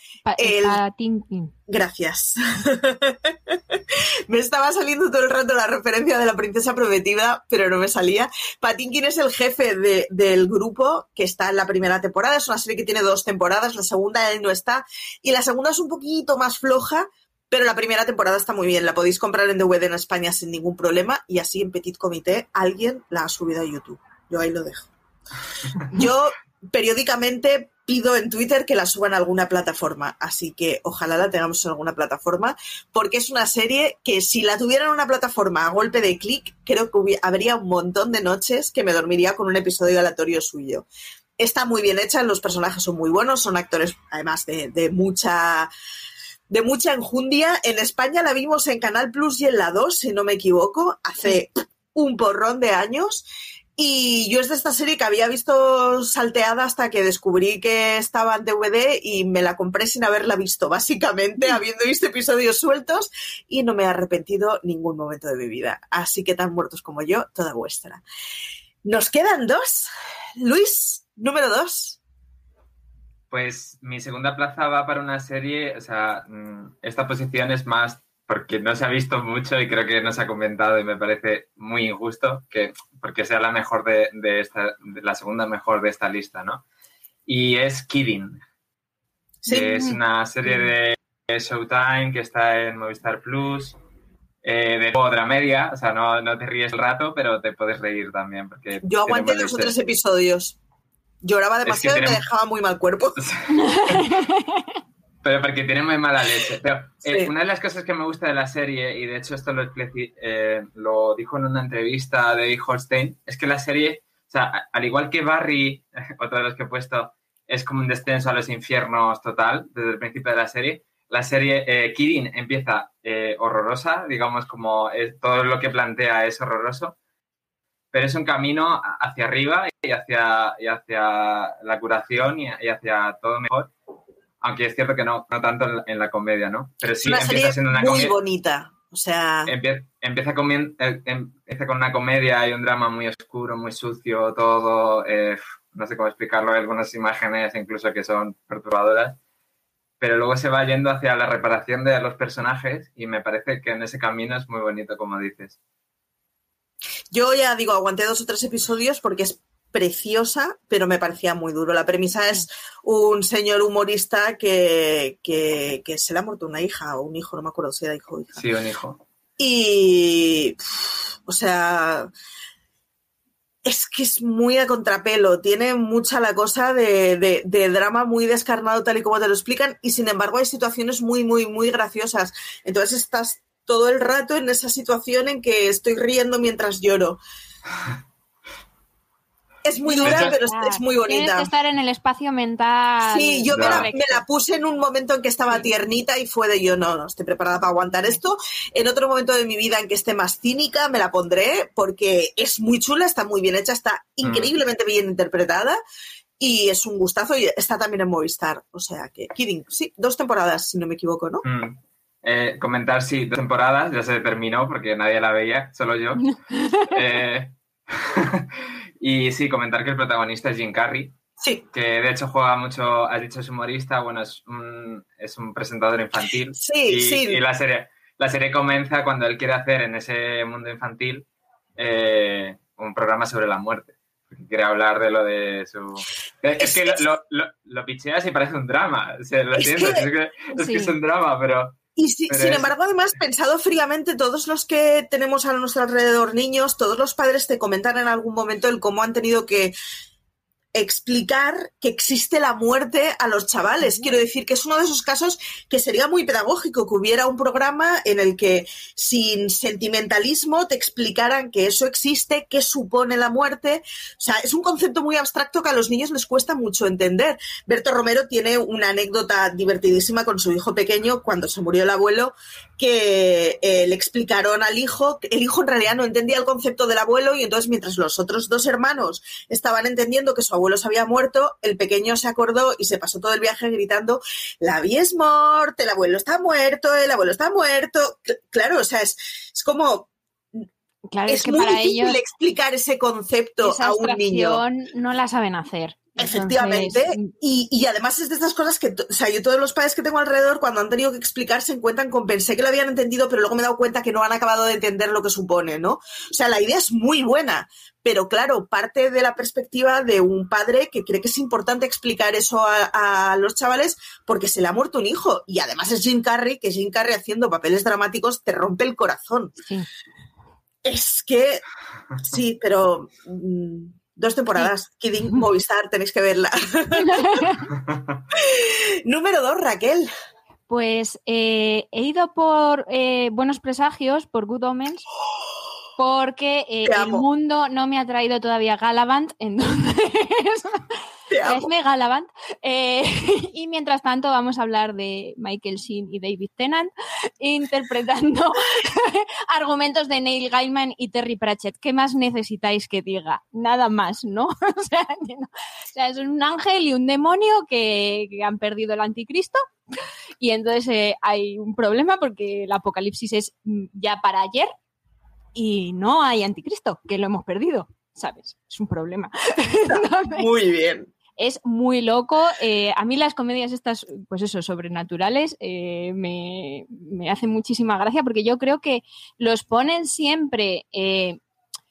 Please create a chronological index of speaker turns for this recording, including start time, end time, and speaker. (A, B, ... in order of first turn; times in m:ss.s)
0:00.2-0:01.5 A
0:00.4-0:00.8 B
0:01.7-0:24.9 B
0:25.8-0:40.9 B
0:41.4-0:45.7 B
0:46.5-0:53.2 B
0:53.8-1:08.0 B
1:08.8-1:12.0 B
1:13.3-1:26.6 C
1:27.3-1:28.4 C
1:29.4-1:29.9 B
1:29.5-1:33.8 C
1:34.4-1:39.7 C
1:38.8-1:40.6 B
1:41.2-1:43.2 B
1:41.6-1:42.2 C
1:43.2-1:44.1 C
1:43.6-1:44.6 A
1:45.2-2:07.0 C
2:07.9-2:13.7 C
2:14.4-2:18.1 C
2:17.0-2:19.5 B
2:19.5-2:29.2 C
2:30.0-2:35.6 C
2:37.1-2:48.4 B
2:48.4-2:49.0 C
2:49.4-2:52.1 B
2:53.6-3:07.2 B
3:09.6-3:11.5 B
3:09.8-3:14.2 A
3:10.0-3:10.3 C
3:13.1-3:25.8 B
3:13.5-3:13.9 C
3:24.2-3:24.5 C
3:26.4-3:31.4 B
3:31.4-3:38.5 C
3:36.5-3:36.9 A
3:39.0-3:41.2 C
3:41.7-3:51.2 C
3:46.6-3:47.4 B
3:51.8-4:02.7 C
3:56.6-3:57.0 B
3:59.5-4:00.0 B
4:00.5-4:00.9 A
4:02.0-4:09.7 B
4:10.7-4:50.6 B
4:13.8-4:14.1 A
4:51.1-4:52.2 A
4:51.3-4:54.6 B
4:53.6-4:57.3 A
4:56.2-5:19.5 B
5:20.8-5:21.6 B
5:22.2-5:27.5 B
5:27.0-5:27.7 A
5:28.3-5:30.1 B
5:30.7-5:35.0 A
5:36.0-5:40.8 A
5:36.8-5:37.2 B
5:41.3-5:41.7 B
5:41.4-5:59.6 A
6:00.4-6:04.7 A
6:05.5-6:10.4 A
6:09.9-6:11.1 B
6:11.4-6:21.4 A